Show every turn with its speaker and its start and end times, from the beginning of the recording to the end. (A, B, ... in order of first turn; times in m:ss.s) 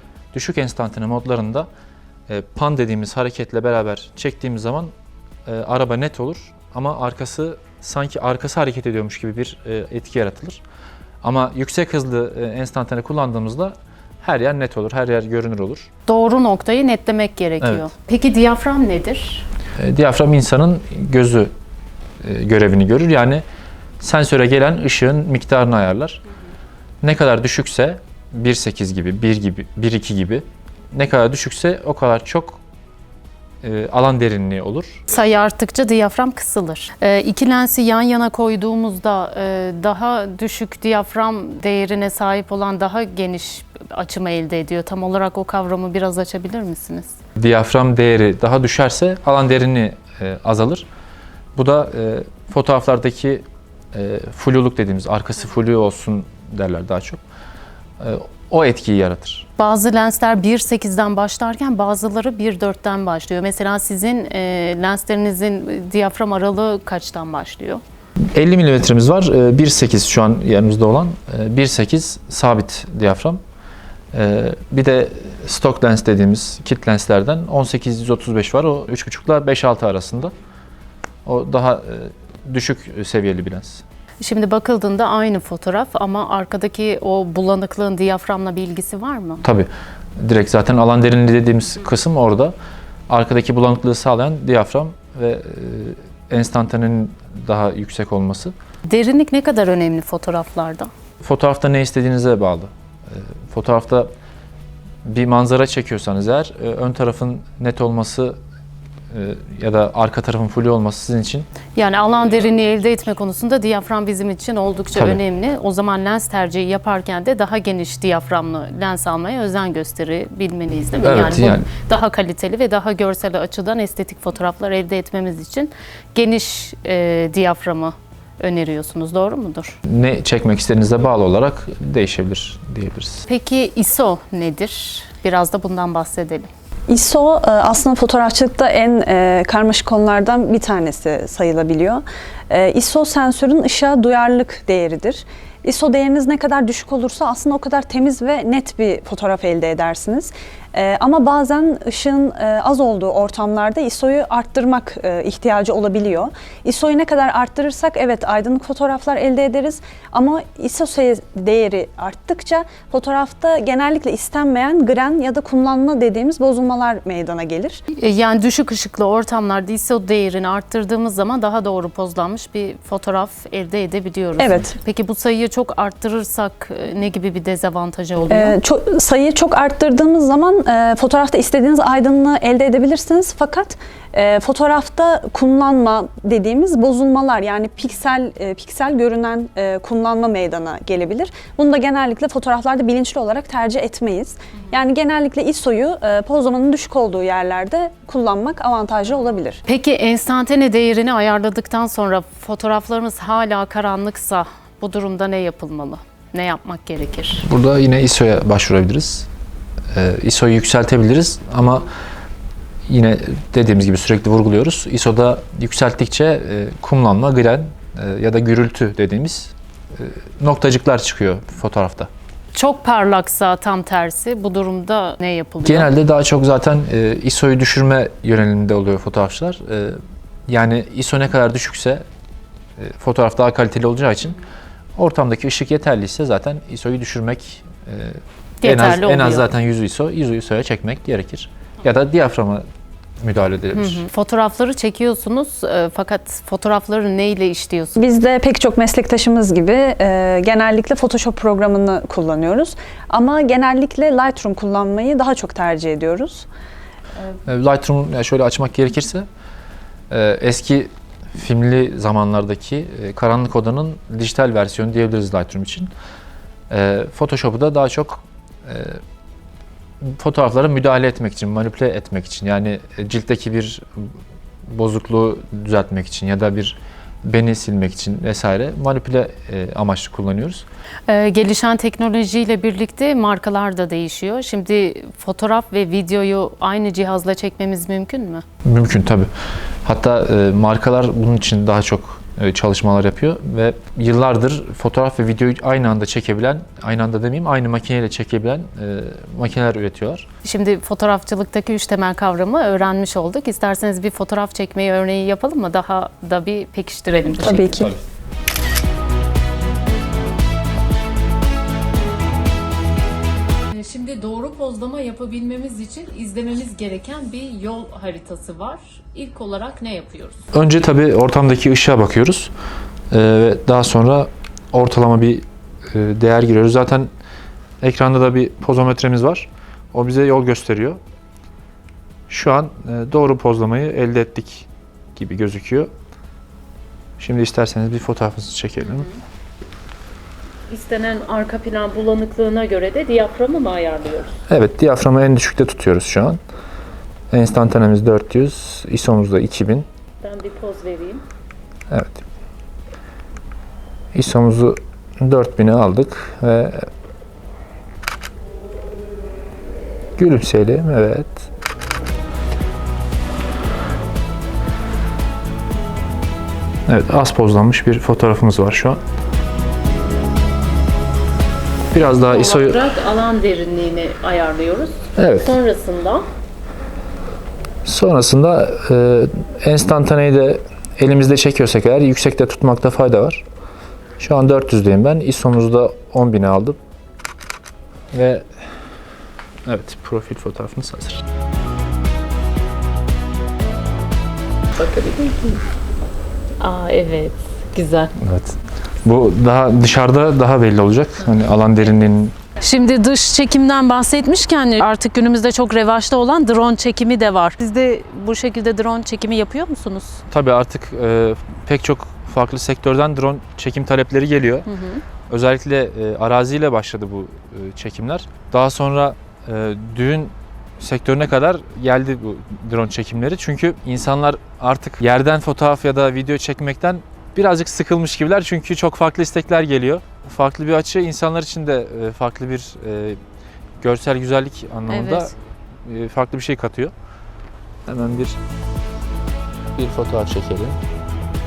0:00.3-0:01.7 A
0:02.3-0:04.9 A
0:05.5-0:10.6 A
0:11.2-0:15.9 A
0:16.1-0:19.5 B
0:17.6-0:17.9 A
0:19.8-0:21.5 A
0:22.2-0:23.4 A
0:24.0-0:26.2 A
0:27.0-0:32.6 A
0:33.6-0:35.0 A
0:35.1-0:47.1 B
0:47.4-0:50.9 A
0:51.6-0:57.2 A
0:58.0-0:59.5 A
0:59.6-1:07.8 B
1:08.3-1:13.4 A
1:14.1-1:20.3 A
1:21.2-1:23.8 A
1:24.2-1:29.4 B
1:29.4-1:32.6 A
1:33.1-1:38.5 A
1:38.9-1:40.9 B
1:41.2-1:44.1 A
1:45.0-1:48.4 A
1:49.1-1:51.5 A
1:51.8-2:09.8 B
1:55.0-1:55.2 A
2:01.0-2:01.7 A
2:09.9-2:13.3 A
2:13.3-2:16.5 B
2:16.9-2:47.8 C
2:48.0-2:58.6 B
2:54.4-2:54.7 C
2:58.3-3:19.6 C
3:19.7-3:27.5 B
3:27.4-3:29.3 A
3:29.9-3:31.9 A
3:32.9-3:42.1 A
3:42.5-3:45.9 B
3:45.6-3:52.0 A
3:52.8-3:54.4 A
3:55.0-4:02.6 A
3:58.6-3:59.5 B
4:03.2-4:04.0 A
4:03.8-4:08.0 B
4:08.0-4:16.5 C
4:17.5-4:19.3 A
4:20.1-4:25.9 A
4:26.7-4:29.0 A
4:30.0-4:34.1 A
4:34.7-4:40.6 A
4:41.1-4:48.4 B
4:48.6-4:49.3 A
4:49.8-5:00.3 A
5:00.4-5:07.9 B
5:07.4-5:07.9 C
5:07.4-5:08.0 A
5:13.7-5:20.4 B
5:20.5-5:22.5 A
5:23.1-5:27.1 A
5:27.8-5:31.0 A
5:32.3-5:35.9 A
5:37.2-5:39.0 A
5:40.7-5:44.4 B
5:44.5-5:46.4 A
5:47.3-5:49.9 A
5:50.2-5:51.2 B
5:51.9-5:52.2 A
5:54.1-5:56.9 A
6:00.2-6:01.5 A
6:06.9-6:09.0 A
6:11.9-6:12.8 A
6:12.2-6:16.2 B
6:15.2-6:15.5 A
6:17.8-6:23.4 A
6:24.2-6:26.8 A
6:28.1-6:28.6 A
6:29.7-6:31.2 A
6:34.8-6:35.6 B
6:36.6-6:38.1 B
6:38.2-6:42.4 A
6:42.6-6:50.2 B
6:50.3-6:54.7 A
6:54.7-6:55.0 B
6:55.3-7:13.2 A
7:13.8-7:15.3 A
7:14.9-7:15.3 B
7:15.8-7:16.9 A
7:17.9-7:18.4 A
7:19.8-7:20.8 A